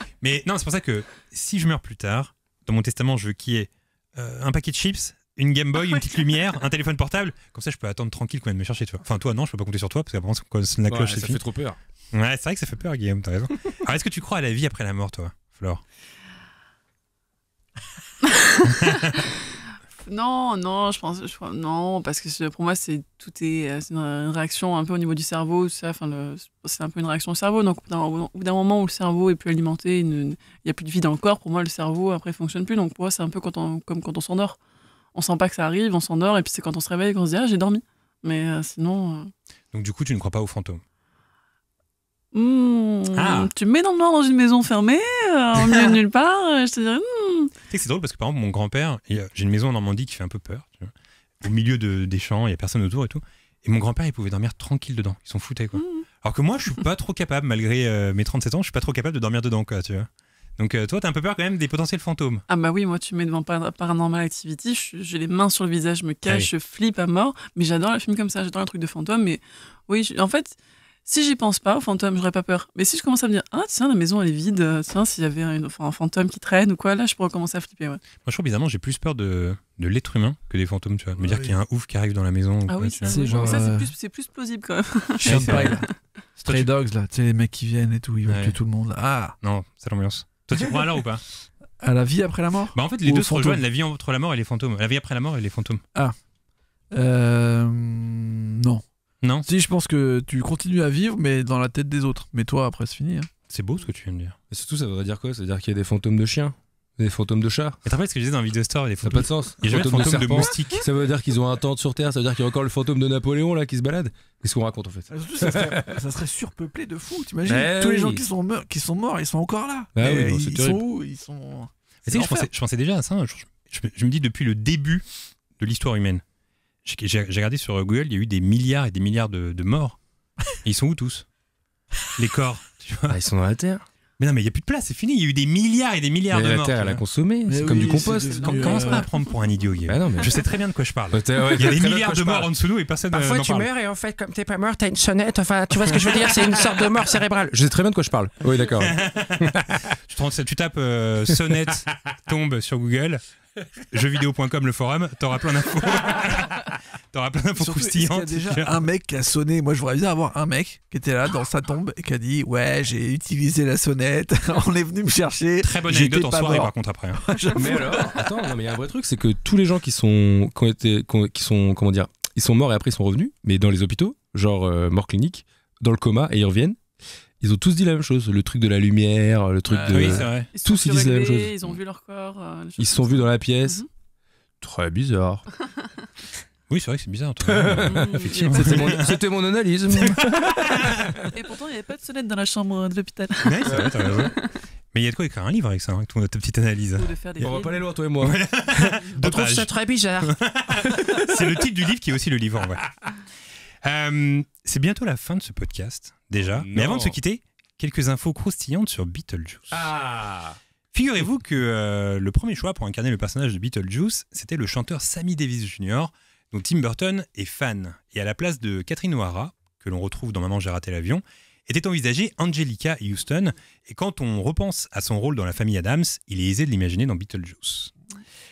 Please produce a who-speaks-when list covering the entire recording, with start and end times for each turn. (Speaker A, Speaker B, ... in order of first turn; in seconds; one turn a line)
Speaker A: 0.2-11.4
Speaker B: 5.8-6.3
Speaker C: 10.9-11.8
Speaker A: 12.1-15.8
Speaker B: 18.2-19.3
Speaker B: 20.1-34.6
Speaker B: 35.1-39.3
Speaker A: 39.7-40.8
Speaker B: 42.3-47.5
Speaker A: 43.1-43.5
Speaker A: 45.6-45.9
Speaker A: 47.7-62.4
Speaker B: 55.7-56.0
Speaker B: 62.5-78.0
Speaker A: 78.2-83.5
Speaker D: 81.2-81.6
Speaker B: 82.7-85.7
Speaker D: 83.0-83.9
Speaker A: 85.2-85.8
Speaker D: 85.2-89.3
Speaker A: 86.4-86.7
Speaker A: 88.3-88.5
Speaker A: 89.4-91.2
Speaker D: 91.8-93.6
Speaker A: 92.7-95.8
Speaker D: 96.9-98.8
Speaker A: 99.2-99.5
Speaker D: 99.4-103.3
Speaker A: 103.5-104.4
Speaker C: 104.5-107.8
Speaker A: 107.8-110.8
Speaker C: 109.0-115.9
Speaker D: 115.1-122.5
Speaker C: 117.5-118.2
Speaker C: 119.9-120.8
Speaker A: 122.0-125.0
Speaker A: 125.6-126.2
Speaker A: 126.8-130.0
Speaker A: 130.6-131.2
Speaker A: 132.1-133.2
Speaker C: 133.1-133.8
Speaker A: 134.2-137.0
Speaker C: 136.3-138.5
Speaker D: 137.4-139.1
Speaker B: 138.4-139.2
Speaker A: 138.4-143.7
Speaker C: 139.9-140.3
Speaker C: 141.1-142.5
Speaker E: 143.1-147.5
Speaker C: 147.4-149.9
Speaker A: 148.8-149.5
Speaker A: 150.1-153.2
Speaker A: 153.9-158.8
Speaker D: 157.6-168.2
Speaker A: 165.6-167.2
Speaker C: 167.5-176.8
Speaker C: 177.4-181.8
Speaker B: 179.8-183.9
Speaker A: 179.9-180.5
Speaker C: 182.8-183.8
Speaker C: 184.6-185.5
Speaker A: 186.7-189.2
Speaker C: 187.4-191.3
Speaker B: 187.8-188.9
Speaker A: 189.9-191.1
Speaker B: 191.3-194.6
Speaker A: 193.4-194.3
Speaker C: 193.7-193.9
Speaker A: 194.9-197.5
Speaker B: 197.0-197.8
Speaker C: 197.4-199.0
Speaker A: 198.2-199.7
Speaker E: 199.2-200.4
Speaker A: 200.2-202.9
Speaker C: 200.8-201.2
Speaker A: 203.8-209.9
Speaker C: 206.4-207.2
Speaker C: 209.7-210.6
Speaker A: 210.9-227.9